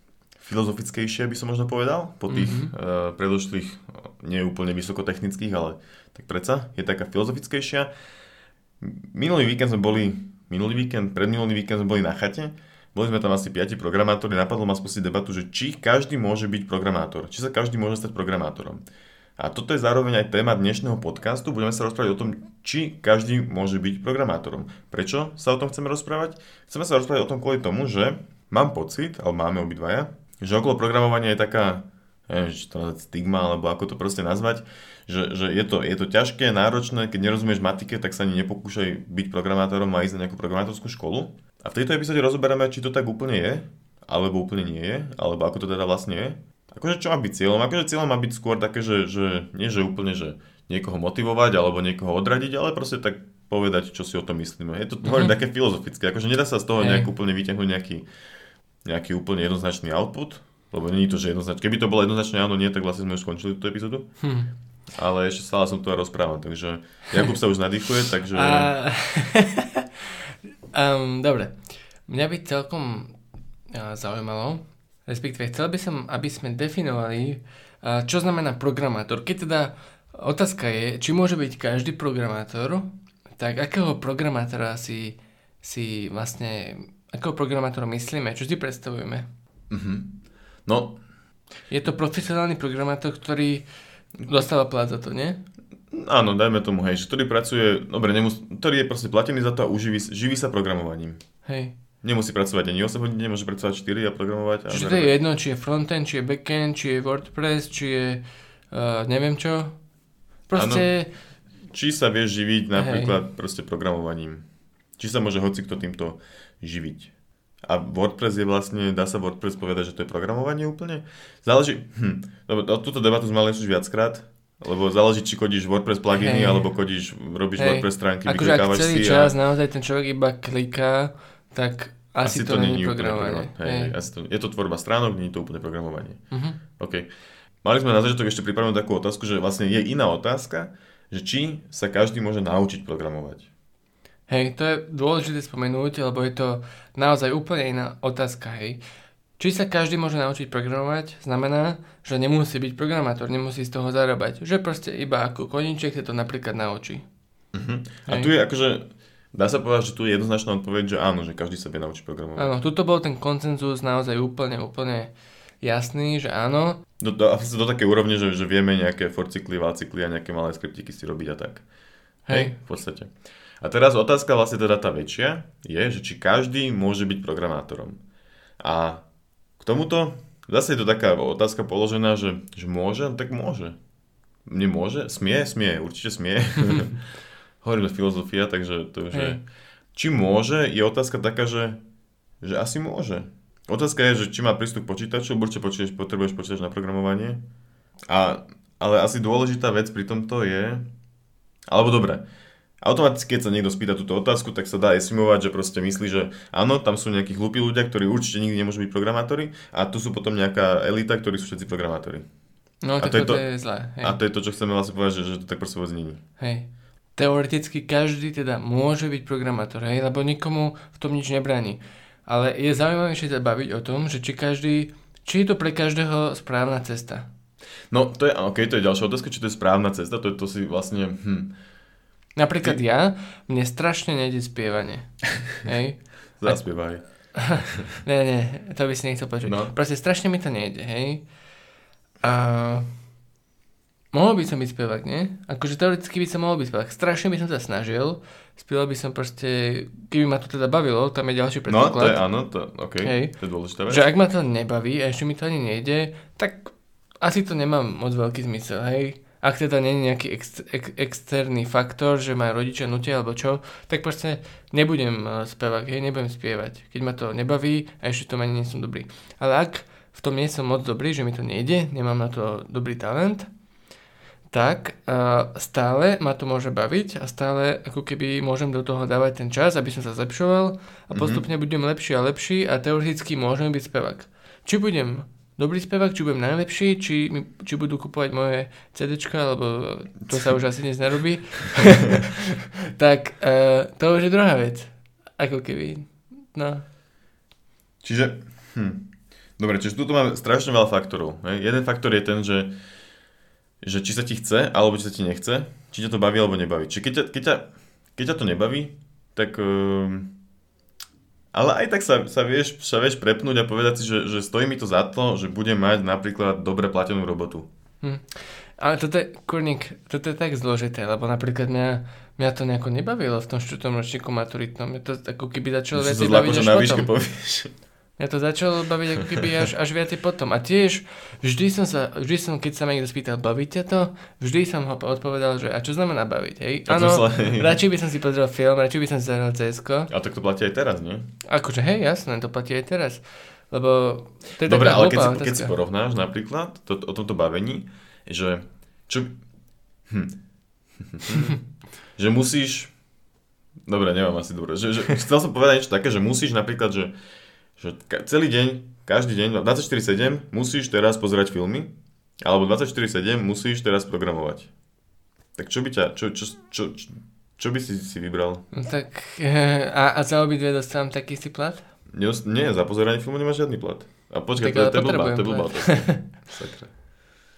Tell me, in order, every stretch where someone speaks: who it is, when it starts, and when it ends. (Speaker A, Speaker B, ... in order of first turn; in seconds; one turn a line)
Speaker A: 0.4-7.9
Speaker B: 2.3-2.7
Speaker A: 8.8-18.8
Speaker A: 19.4-58.1
Speaker B: 55.0-55.3
Speaker B: 56.8-57.1
Speaker A: 58.8-64.2
Speaker B: 64.2-64.5
Speaker A: 64.9-68.7
Speaker B: 68.3-73.2
Speaker B: 73.7-89.3
Speaker A: 89.7-91.0
Speaker B: 91.7-93.7
Speaker B: 94.2-95.4
Speaker A: 95.9-101.2
Speaker B: 101.5-101.8
Speaker A: 102.0-105.1
Speaker B: 104.7-109.8
Speaker B: 110.5-111.1
Speaker A: 110.5-110.9
Speaker A: 111.7-114.5
Speaker B: 112.8-113.2
Speaker A: 115.0-117.1
Speaker A: 117.6-129.3
Speaker B: 126.1-126.7
Speaker B: 127.6-133.9
Speaker A: 132.2-137.1
Speaker B: 136.3-136.6
Speaker A: 137.6-143.5
Speaker B: 144.3-148.8
Speaker B: 149.4-157.0
Speaker A: 157.5-162.6
Speaker B: 162.4-166.8
Speaker A: 167.0-171.7
Speaker B: 172.3-172.6
Speaker A: 172.3-178.0
Speaker A: 178.6-179.1
Speaker A: 179.6-183.8
Speaker A: 184.4-187.0
Speaker A: 187.6-191.8
Speaker B: 189.1-189.4
Speaker A: 192.4-197.4
Speaker A: 198.1-200.9
Speaker A: 201.7-202.3
Speaker A: 202.8-212.3
Speaker B: 212.8-214.2
Speaker A: 213.0-216.2
Speaker B: 216.4-227.3
Speaker A: 227.9-231.6
Speaker B: 232.4-236.8
Speaker A: 236.4-237.7
Speaker B: 237.3-241.3
Speaker A: 239.4-239.8
Speaker B: 242.2-242.9
Speaker B: 244.1-252.3
Speaker A: 251.7-254.1
Speaker B: 253.0-273.5
Speaker B: 274.5-296.8
Speaker A: 281.1-281.5
Speaker A: 290.2-290.5
Speaker A: 298.0-302.8
Speaker A: 303.8-310.3
Speaker A: 311.5-317.7
Speaker B: 318.0-327.1
Speaker A: 325.9-327.7
Speaker B: 328.2-340.1
Speaker A: 336.9-337.8
Speaker A: 340.1-341.3
Speaker B: 341.5-345.8
Speaker A: 344.6-349.4
Speaker A: 350.1-350.4
Speaker A: 351.0-353.0
Speaker A: 353.9-357.2
Speaker A: 357.8-364.7
Speaker A: 365.6-368.7
Speaker B: 368.7-371.8
Speaker A: 372.1-376.9
Speaker B: 374.6-376.2